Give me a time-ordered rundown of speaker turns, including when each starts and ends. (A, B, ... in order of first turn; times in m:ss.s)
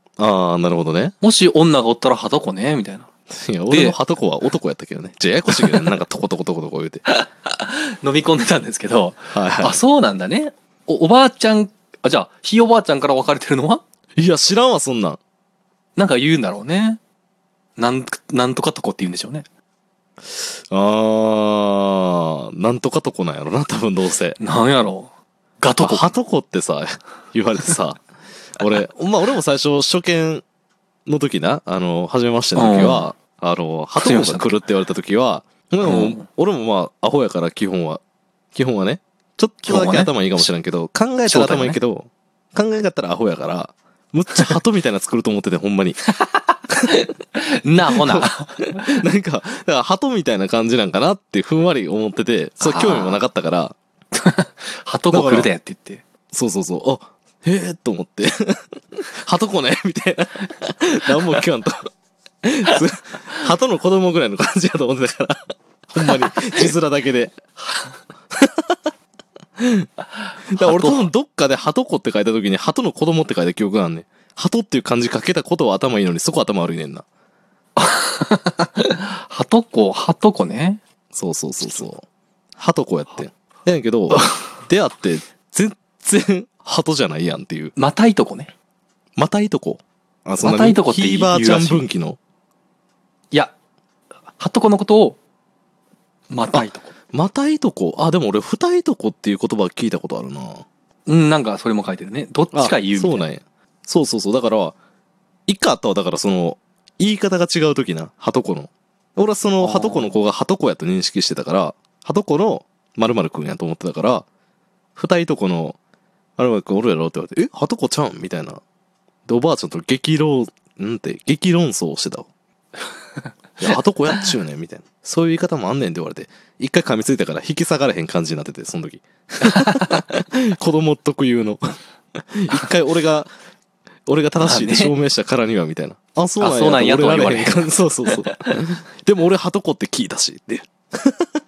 0:00.2-0:01.2 A
0:01.2-0:03.1 B
0:03.3-0:07.0 A
0:03.7-0:04.0 B
0:05.5-0:05.9 B
0:07.1-0:13.8 B
0:09.3-0:09.8 A
0:14.2-0:15.2 A
0:16.0-0:17.0 B
0:17.8-0:19.5 B
0:20.3-0:24.4 A
0:24.4-0:26.1 B
0:25.8-0:28.0 A
0:28.6-0:30.4 A
0:31.1-0:38.0 A
0:32.6-0:33.1 B
0:34.0-0:34.5 B
0:35.8-0:36.3 B
0:38.5-0:46.0 A
0:39.6-0:40.4 B
0:41.3-0:41.8 B
0:46.2-0:49.0 B
0:47.9-0:53.8 A
0:52.6-0:53.2 B
0:54.1-0:56.0 B
0:55.1-0:55.5 A
0:56.3-0:58.6 A
0:59.2-1:01.9 A
1:02.4-1:07.4 A
1:06.1-1:06.7 B
1:08.3-1:08.8 A
1:09.6-1:09.9 A
1:10.5-1:11.1 B
1:10.5-1:17.0 A
1:17.8-1:20.8 B
1:21.1-1:22.0 A
1:22.6-1:27.8 A
1:24.1-1:24.4 B
1:27.8-1:28.5 B
1:29.2-1:32.2 A
1:30.4-1:31.9 B
1:34.4-1:35.2 B
1:36.3-1:36.9 B
1:36.5-1:40.6 A
1:41.1-1:43.3 B
1:42.5-1:44.8 A
1:45.5-1:54.3 A
1:49.6-1:50.2 B
1:55.0-1:55.8 A
1:56.4-1:58.6 A
1:59.3-2:02.3 A
2:03.6-2:11.6 A
2:03.7-2:04.3 B
2:09.7-2:10.0 B
2:12.2-2:13.3 A
2:14.1-2:21.3 A
2:14.4-2:14.9 B
2:16.4-2:18.6 B